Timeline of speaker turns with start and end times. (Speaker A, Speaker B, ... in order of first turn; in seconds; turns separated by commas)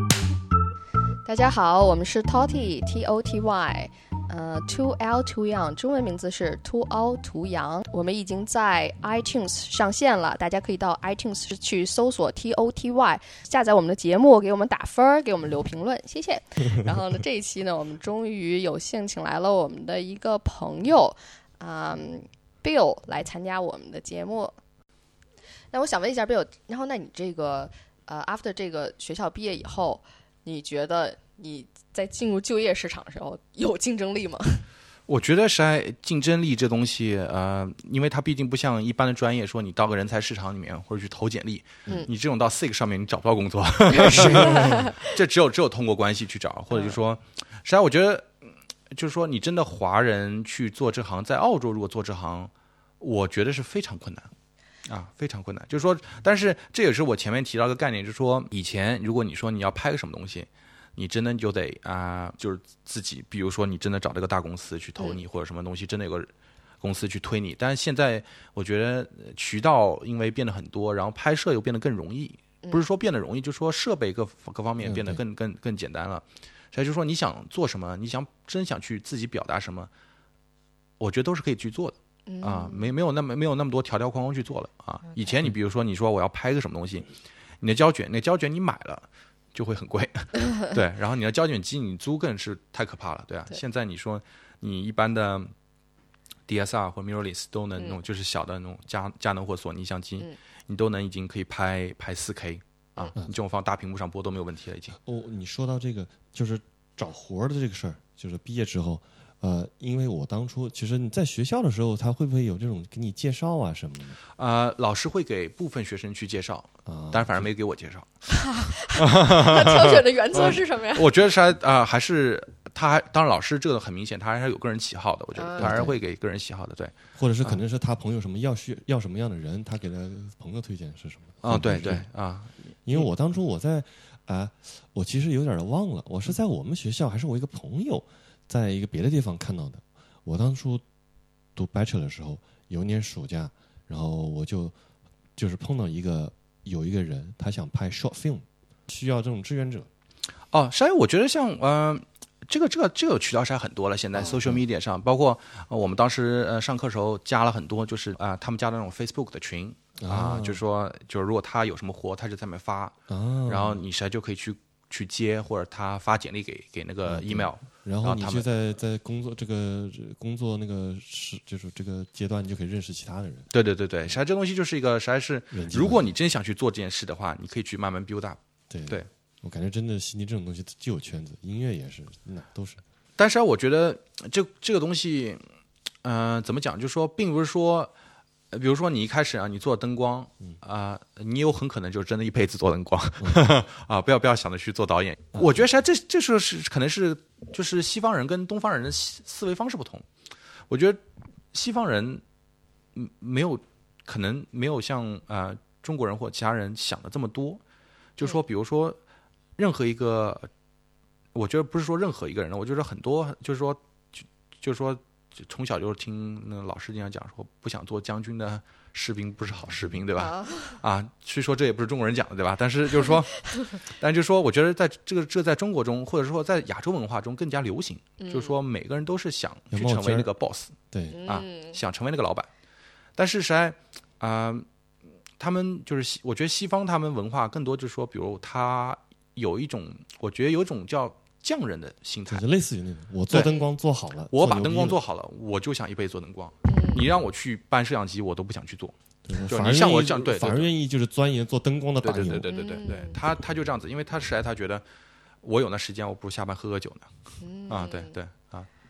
Speaker A: 1.2-24.6, Speaker A: 25.7-34.6, Speaker B: 35.1-54.3, Speaker C: 44.0-44.8, Speaker A: 44.1-45.1, Speaker B: 54.9-66.3, Speaker B: 66.8-79.9, Speaker C: 74.8-75.2, Speaker B: 81.0-87.1, Speaker A: 82.3-82.9, Speaker B: 87.6-95.5, Speaker B: 96.5-105.0, Speaker C: 105.0-114.2, Speaker B: 114.4-118.1, Speaker C: 116.9-117.5, Speaker A: 118.3-121.1, Speaker B: 119.0-127.6, Speaker A: 125.4-125.8, Speaker C: 125.6-126.0, Speaker C: 127.2-132.1, Speaker B: 131.4-133.1, Speaker C: 132.8-140.8, Speaker C: 141.6-144.8, Speaker C: 145.4-149.9, Speaker B: 150.5-163.0, Speaker C: 154.2-154.6, Speaker C: 160.0-160.6, Speaker C: 163.1-163.8, Speaker B: 163.5-168.4, Speaker C: 167.1-173.5, Speaker B: 173.5-179.1, Speaker C: 175.5-176.1, Speaker C: 178.7-182.8, Speaker B: 183.2-185.4, Speaker B: 186.0-187.9, Speaker B: 188.5-200.1, Speaker B: 200.7-201.0, Speaker B: 201.5-202.2, Speaker B: 202.9-207.6, Speaker B: 208.2-209.0, Speaker B: 209.6-210.5, Speaker B: 211.3-230.8, Speaker A: 220.2-220.8, Speaker A: 228.2-228.6, Speaker C: 229.7-230.3, Speaker C: 230.9-231.2, Speaker A: 231.1-231.8, Speaker B: 231.3-232.5, Speaker B: 233.2-234.7, Speaker B: 235.4-242.4, Speaker C: 242.3-245.0, Speaker B: 244.3-248.9, Speaker A: 246.7-247.1, Speaker C: 249.2-252.5, Speaker B: 249.5-250.7, Speaker B: 252.0-254.8, Speaker A: 252.5-253.2, Speaker B: 255.4-257.1, Speaker A: 257.4-258.1, Speaker B: 257.7-258.7